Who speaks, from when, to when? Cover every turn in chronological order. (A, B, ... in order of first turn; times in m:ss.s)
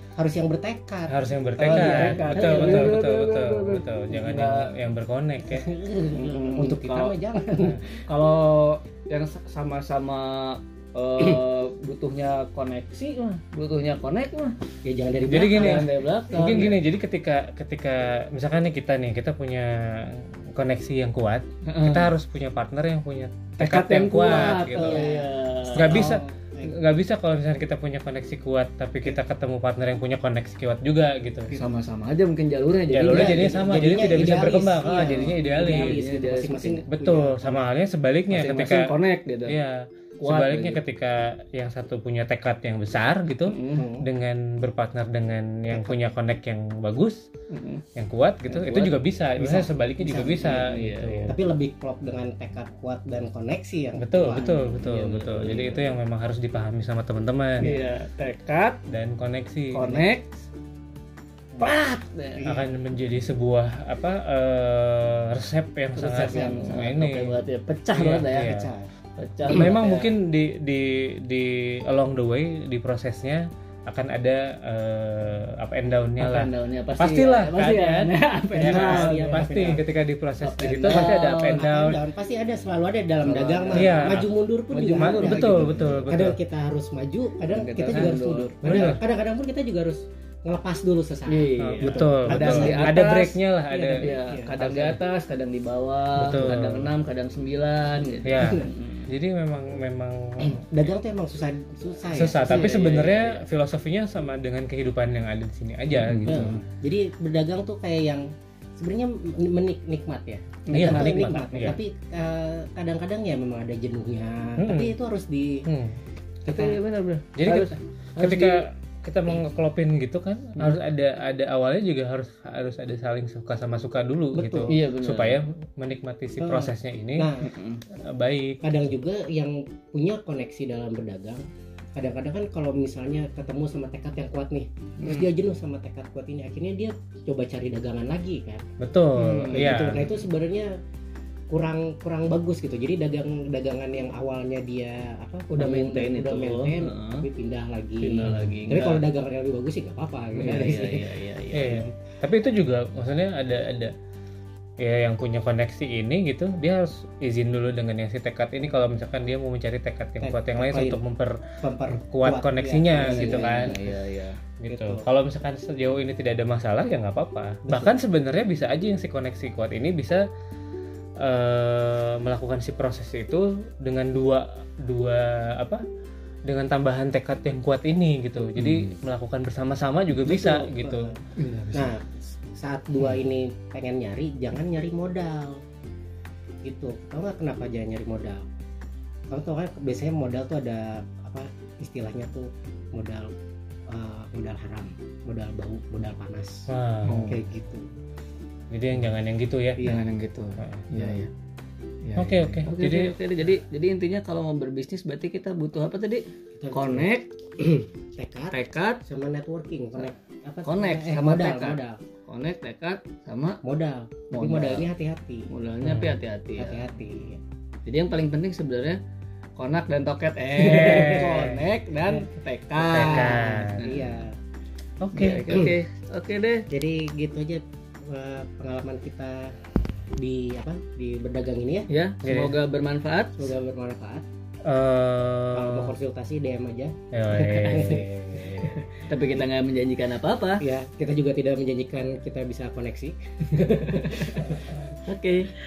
0:00.2-0:03.0 A
0:01.1-0:05.7 B
0:01.6-0:04.7 C
0:05.5-0:07.8 A
0:06.1-0:07.1 C
0:08.1-0:14.6 C
0:14.8-0:16.7 A
0:15.3-0:25.1 B
0:15.3-0:16.8 C
0:21.6-0:22.1 C
0:23.6-0:26.1 C
0:24.7-0:26.7 A
0:25.7-0:31.6 B
0:31.5-0:33.7 C
0:32.9-0:36.0 B
0:33.1-0:37.6 A
0:34.8-0:36.8 C
0:36.9-0:47.3 B
0:38.3-0:39.6 C
0:40.2-0:40.8 C
0:43.4-0:43.8 C
0:43.7-0:44.1 A
0:47.5-0:47.8 C
0:47.9-0:51.3 B
0:48.5-0:49.0 C
0:49.4-0:50.7 A
0:50.4-0:51.3 C
0:51.3-0:55.0 A
0:54.0-0:57.7 B
0:54.8-0:55.9 C
0:57.6-0:58.8 C
0:58.9-1:00.1 B
0:59.7-1:00.3 C
1:01.6-1:02.5 C
1:02.4-1:07.4 B
1:05.9-1:10.1 C
1:06.2-1:06.6 A
1:07.9-1:08.7 B
1:09.5-1:22.0 B
1:16.2-1:19.5 C
1:18.5-1:19.8 A
1:20.4-1:21.6 C
1:20.8-1:33.0 A
1:23.2-1:26.1 C
1:23.7-1:24.3 B
1:24.9-1:26.4 B
1:27.5-1:29.0 C
1:27.9-1:29.0 B
1:31.3-1:33.4 C
1:31.6-1:34.0 B
1:33.7-1:35.0 A
1:34.0-1:39.1 C
1:36.2-1:36.9 B
1:38.2-1:40.6 B
1:38.4-1:38.6 A
1:40.4-1:43.2 A
1:42.1-1:46.6 B
1:42.4-1:43.4 C
1:46.0-1:46.6 C
1:46.2-1:48.2 A
1:48.8-1:55.7 A
1:50.6-1:51.5 C
1:50.7-1:51.8 B
1:54.6-1:55.0 B
1:55.6-1:56.0 B
1:56.4-1:56.8 A
1:56.5-1:58.6 C
1:57.4-2:07.4 B
2:04.3-2:04.7 A
2:04.7-2:05.4 C
2:06.4-2:07.5 A
2:07.4-2:07.8 C
2:08.0-2:08.6 B
2:08.6-2:11.4 A
2:11.9-2:18.6 A
2:15.0-2:15.3 C
2:18.8-2:20.1 B
2:19.2-2:20.0 C
2:19.5-2:20.7 A
2:21.5-2:31.1 A
2:25.5-2:27.3 C
2:28.0-2:29.0 C
2:28.2-2:28.5 B
2:30.4-2:31.9 C
2:31.5-2:33.9 B
2:34.8-2:41.4 B
2:40.2-2:41.0 A
2:41.6-2:43.8 A
2:42.1-2:43.8 B
2:42.6-2:44.4 C
2:44.6-2:50.3 B
2:44.7-2:45.0 A
2:47.6-2:47.9 A
2:51.2-2:55.8 B
2:56.4-3:01.2 B
3:00.2-3:01.2 A
3:01.4-3:01.9 C
3:01.7-3:05.6 A
3:06.6-3:08.4 A
3:09.3-3:13.3 A
3:13.9-3:16.7 A
3:16.7-3:17.4 B
3:17.0-3:17.4 C
3:17.2-3:17.8 A
3:18.7-3:20.0 B
3:19.8-3:21.3 C
3:20.6-3:20.9 B
3:22.0-3:27.3 C
3:22.2-3:23.2 B
3:26.6-3:32.0 A
3:28.5-3:29.0 C
3:30.6-3:33.6 C
3:33.6-3:35.5 A
3:34.3-3:34.9 C
3:35.5-3:36.8 C
3:35.8-3:36.2 B
3:36.6-3:37.4 A
3:37.8-3:39.0 C
3:39.6-3:44.1 C
3:40.5-3:41.6 B
3:42.8-3:44.4 A
3:42.8-3:43.8 B
3:45.0-3:45.7 B
3:45.1-3:46.7 C
3:46.7-3:49.5 A
3:50.2-3:51.9 A
3:51.9-3:53.5 C
3:52.2-3:52.6 B
3:53.4-3:54.2 A
3:54.6-3:55.9 B
3:55.5-3:57.0 A
3:57.1-3:58.9 B
3:57.3-3:58.0 C
3:57.6-3:58.0 A
3:58.6-4:00.6 C
4:00.6-4:04.7 A
4:04.0-4:04.4 C
4:05.0-4:05.5 C